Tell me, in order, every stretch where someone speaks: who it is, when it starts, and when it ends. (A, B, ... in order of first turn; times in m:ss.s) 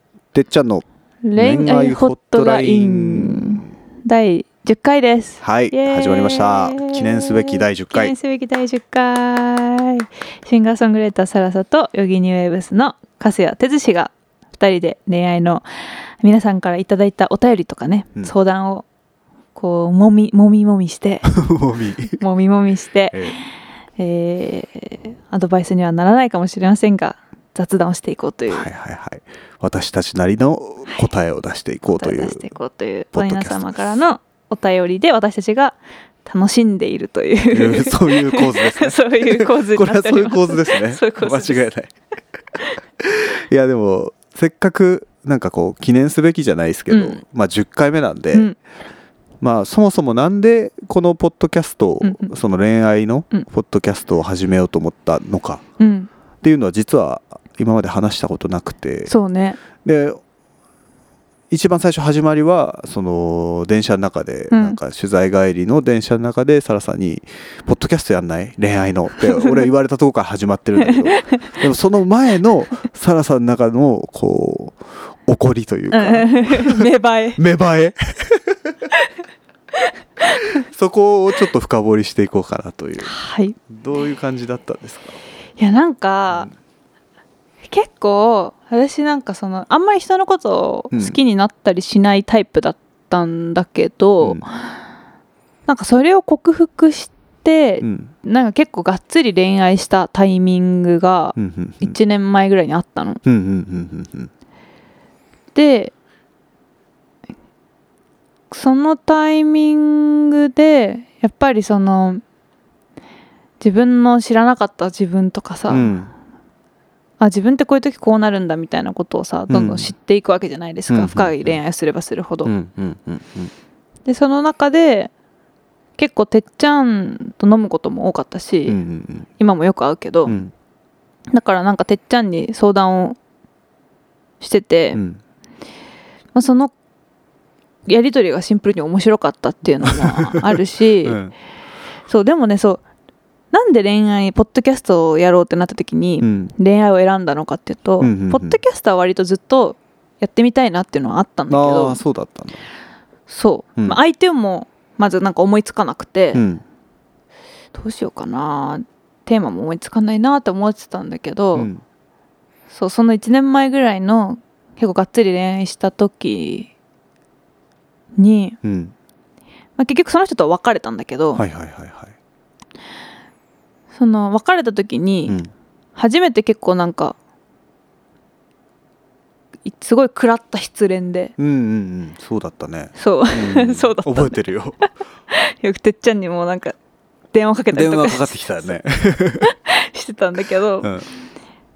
0:00.3-0:00.8 A
0:01.3-0:15.7 B
0:01.4-0:03.7 A
0:05.4-0:08.1 A
0:16.2-0:18.8 B
0:19.6-0:21.3 B
0:21.3-0:22.2 A
0:22.2-0:23.4 B
0:23.1-0:23.4 A
0:24.0-0:28.7 B
0:28.5-0:32.5 A
0:32.0-0:41.7 B
0:33.1-0:34.0 A
0:37.5-0:41.9 A
0:43.0-0:48.5 A
0:46.9-0:47.2 B
0:49.4-0:55.6 A
0:52.0-0:52.3 B
0:55.8-0:56.1 B
0:56.4-0:59.1 A
0:59.1-0:59.6 B
0:59.8-1:00.2 A
1:01.5-1:18.9 A
1:04.5-1:04.8 B
1:09.3-1:09.7 B
1:10.8-1:11.5 B
1:15.9-1:17.4 B
1:19.8-1:20.5 B
1:20.6-1:23.1 A
1:23.0-1:23.6 B
1:23.7-1:25.2 A
1:25.6-1:26.5 B
1:27.6-1:34.5 B
1:30.9-1:31.2 A
1:35.7-1:43.2 B
1:37.8-1:38.1 A
1:41.4-1:42.0 A
1:43.2-1:44.3 A
1:45.6-1:45.9 B
1:48.5-1:52.2 B
1:53.6-1:55.9 B
1:55.7-1:56.1 A
1:57.2-2:02.5 B
1:59.5-1:59.9 A
2:00.9-2:01.6 A
2:02.4-2:03.5 A
2:04.1-2:05.1 B
2:06.0-2:08.8 B
2:08.7-2:09.3 A
2:09.4-2:10.4 B
2:10.3-2:10.5 A
2:11.3-2:13.2 B
2:14.4-2:15.0 B
2:14.9-2:15.2 A
2:16.3-2:16.7 B
2:17.9-2:21.2 B
2:19.9-2:21.3 A
2:22.1-2:22.8 B
2:23.5-2:32.0 B
2:26.2-2:26.5 A
2:28.0-2:28.6 A
2:31.5-2:32.6 A
2:33.3-2:36.4 B
2:36.4-2:36.6 A
2:37.7-2:41.7 B
2:41.6-2:41.8 A
2:42.7-2:46.7 B
2:48.2-2:48.6 B
2:48.6-2:48.9 A
2:49.8-2:51.4 B
2:51.4-2:52.1 A
2:53.9-2:55.4 B
2:56.0-2:57.2 B
2:59.6-3:01.3 B
3:01.4-3:04.8 A
3:03.0-3:04.4 B
3:05.3-3:06.8 B
3:07.3-3:08.4 B
3:07.7-3:09.5 A
3:09.5-3:10.9 B